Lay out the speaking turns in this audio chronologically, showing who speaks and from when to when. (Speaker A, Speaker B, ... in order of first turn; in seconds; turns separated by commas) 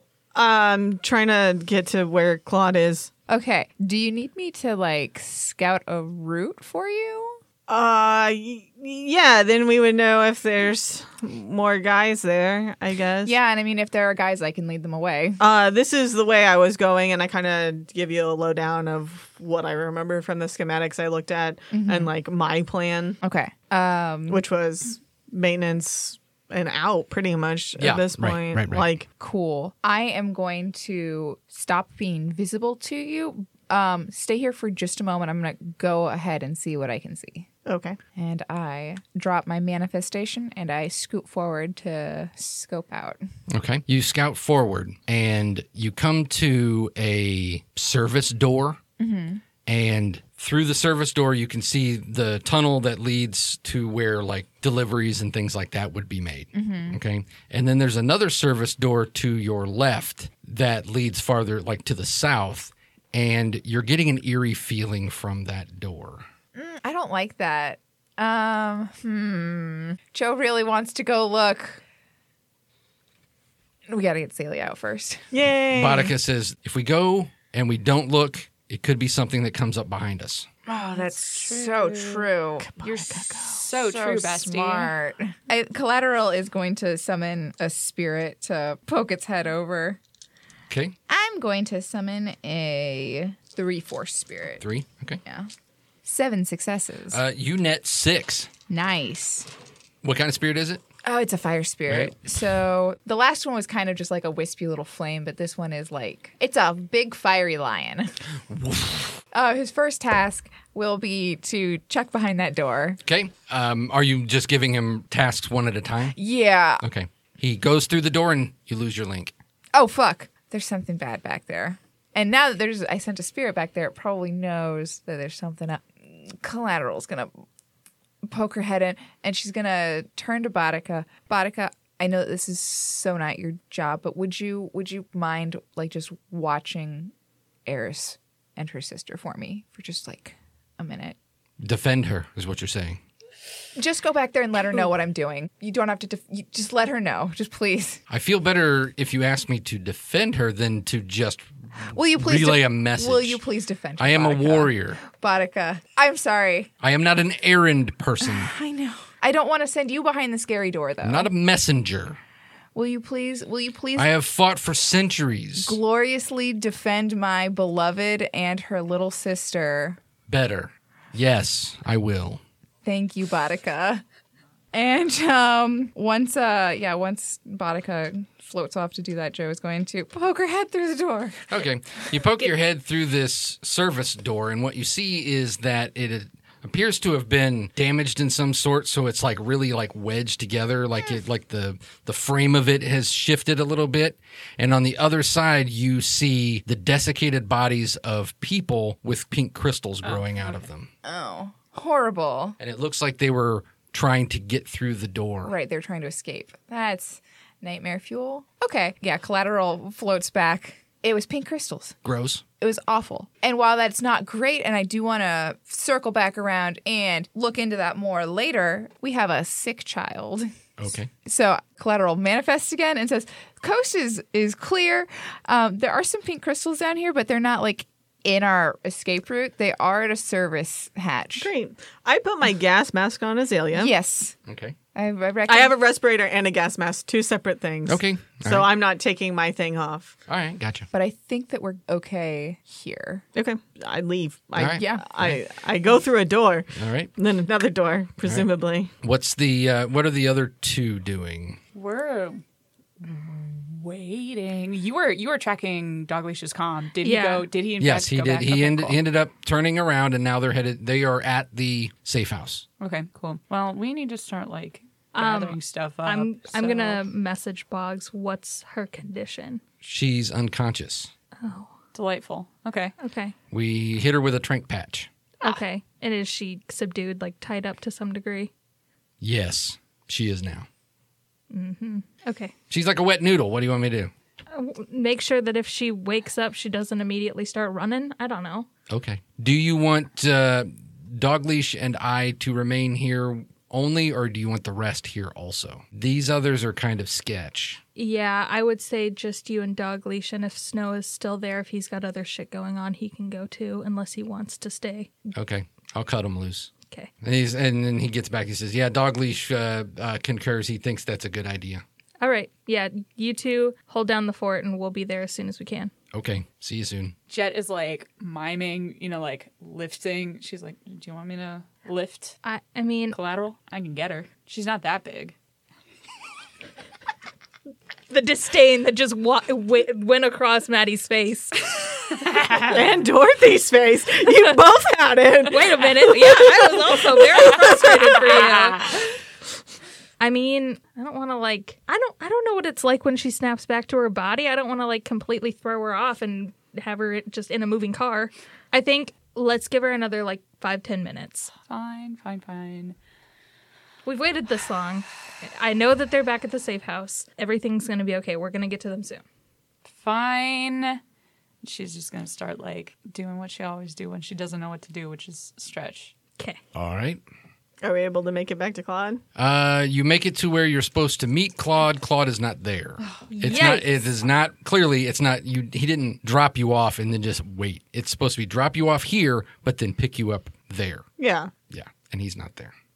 Speaker A: 0.3-3.1, Speaker B: 3.3-7.4, Speaker A: 7.7-13.3, Speaker B: 13.2-15.4, Speaker A: 15.4-23.2, Speaker B: 21.7-22.1, Speaker B: 23.2-24.4, Speaker A: 24.3-29.1, Speaker C: 27.8-28.9, Speaker B: 29.2-37.5, Speaker A: 37.6-38.0, Speaker B: 38.1-43.2, Speaker C: 43.5-48.8, Speaker B: 49.0-49.4, Speaker C: 49.6-66.2, Speaker B: 56.5-57.0, Speaker B: 66.5-71.8, Speaker B: 73.9-75.2, Speaker A: 75.3-76.1, Speaker C: 75.7-80.5, Speaker B: 80.7-90.0, Speaker D: 80.9-82.3, Speaker A: 82.6-83.6, Speaker D: 83.5-84.9, Speaker C: 90.7-91.0, Speaker B: 91.1-94.6, Speaker C: 94.6-95.2, Speaker B: 95.2-95.5, Speaker B: 96.0-97.2, Speaker C: 97.1-98.5, Speaker B: 98.7-99.5, Speaker C: 100.0-100.8, Speaker B: 101.0-108.1, Speaker C: 101.9-102.2, Speaker C: 108.5-109.2, Speaker B: 109.3-113.0, Speaker C: 113.0-116.2, Speaker B: 116.1-116.8, Speaker C: 116.8-119.3, Speaker B: 119.7-127.4, Speaker B: 128.2-137.1, Speaker B: 137.7-141.2, Speaker C: 141.6-143.0, Speaker B: 143.8-148.0, Speaker C: 148.1-153.4, Speaker B: 151.9-156.7, Speaker C: 154.0-155.0, Speaker C: 156.8-158.5, Speaker B: 158.2-161.3, Speaker C: 161.0-162.2, Speaker B: 162.7-164.1, Speaker C: 163.9-165.8, Speaker B: 165.6-170.0, Speaker C: 170.3-172.4, Speaker B: 172.8-174.0, Speaker B: 174.7-181.5, Speaker C: 181.5-200.9, Speaker D: 200.0-200.6, Speaker B: 201.0-202.6, Speaker C: 202.6-205.5, Speaker B: 205.4-211.9, Speaker C: 212.0-212.4, Speaker B: 212.6-220.5, Speaker C: 220.8-221.1, Speaker B: 221.2-231.5, Speaker A: 231.4-233.9, Speaker B: 233.7-234.3, Speaker C: 234.4-234.8, Speaker B: 234.9-235.8, Speaker A: 235.5-240.2, Speaker C: 237.9-238.7, Speaker C: 240.3-240.9, Speaker B: 240.9-243.2, Speaker A: 243.3-248.9, Speaker C: 244.6-245.4, Speaker B: 244.7-245.1, Speaker C: 246.7-247.1, Speaker C: 249.0-251.6, Speaker D: 251.7-252.4, Speaker D: 253.0-259.0, Speaker E: 257.0-257.5, Speaker C: 257.8-262.6, Speaker D: 262.8-267.0, Speaker E: 265.1-269.6, Speaker C: 269.8-271.1, Speaker E: 271.4-271.7, Speaker D: 271.9-272.9, Speaker E: 273.0-273.3, Speaker C: 273.5-275.1, Speaker E: 275.4-278.5, Speaker C: 279.2-280.7, Speaker E: 281.5-282.5, Speaker C: 282.7-284.1, Speaker E: 284.5-288.7, Speaker C: 288.9-297.8, Speaker E: 297.9-305.1, Speaker C: 305.3-311.8, Speaker E: 312.2-315.9, Speaker C: 316.1-317.1, Speaker D: 317.3-322.4, Speaker E: 322.4-323.2, Speaker D: 323.1-325.3, Speaker E: 328.1-332.2, Speaker A: 332.5-338.1, Speaker E: 335.4-339.0, Speaker D: 337.5-339.1, Speaker E: 340.2-351.5, Speaker D: 351.7-352.9, Speaker E: 354.0-359.2, Speaker D: 359.8-361.0, Speaker D: 361.6-366.1, Speaker C: 366.7-367.2, Speaker A: 367.8-369.2, Speaker C: 369.4-381.1, Speaker E: 373.3-374.0, Speaker A: 381.2-381.5, Speaker C: 381.7-382.7